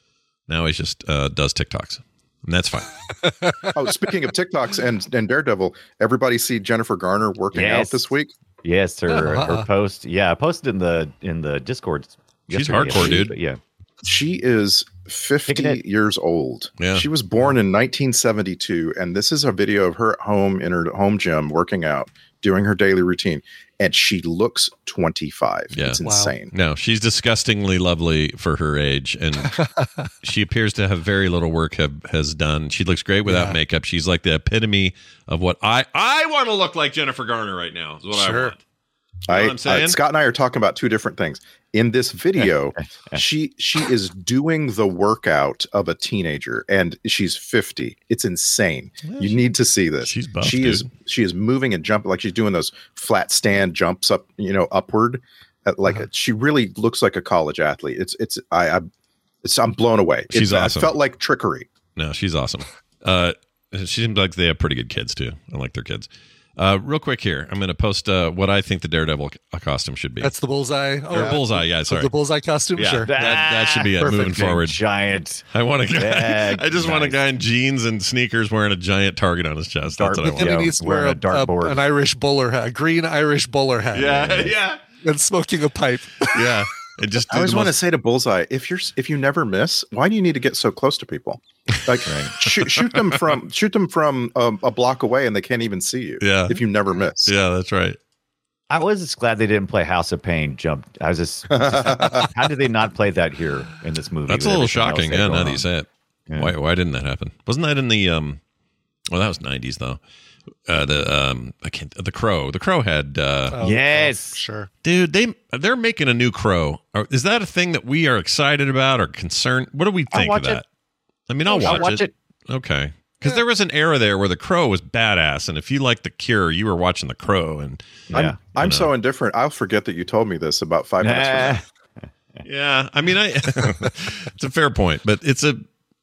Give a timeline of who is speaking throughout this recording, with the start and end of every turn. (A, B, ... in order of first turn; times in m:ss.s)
0:00.5-0:02.9 A
0:03.2-0:03.7 B
0:03.7-0:08.3 C
0:07.5-0:08.0 D
0:08.6-0:13.6 D
0:09.1-0:09.7 B
0:12.5-0:13.4 A
0:14.0-0:26.5 C
0:15.5-0:15.8 D
0:16.8-0:17.1 A
0:25.7-0:29.6 A
0:26.0-0:26.3 B
0:29.4-0:30.1 B
0:30.2-0:38.6 A
0:33.3-0:33.6 B
0:38.1-0:38.5 B
0:39.3-0:58.9 C
0:39.3-0:40.0 A
0:49.0-0:49.4 A
0:50.0-0:50.9 A
0:59.4-1:01.7 C
1:00.3-1:01.0 A
1:02.0-1:10.3 A
1:10.2-1:13.2 B
1:11.1-1:12.1 A
1:12.8-1:14.8 A
1:13.1-1:17.2 D
1:14.0-1:14.4 B
1:15.5-1:20.6 A
1:19.9-1:21.8 D
1:20.4-1:26.4 B
1:23.9-1:24.8 A
1:26.3-1:27.7 A
1:27.3-1:37.3 C
1:32.0-1:32.4 D
1:36.2-1:36.6 A
1:37.2-1:38.0 A
1:38.7-1:45.7 D
1:41.5-1:42.3 C
1:44.3-1:48.4 A
1:49.1-1:50.0 A
1:50.7-1:53.6 A
1:53.5-1:54.7 B
1:53.6-1:54.4 D
1:54.8-2:00.6 A
2:00.1-2:00.6 D
2:01.3-2:08.9 A
2:01.5-2:02.1 D
2:01.5-2:01.9 B
2:08.1-2:08.4 D
2:08.1-2:11.6 C
2:11.0-2:11.6 D
2:12.4-2:15.6 A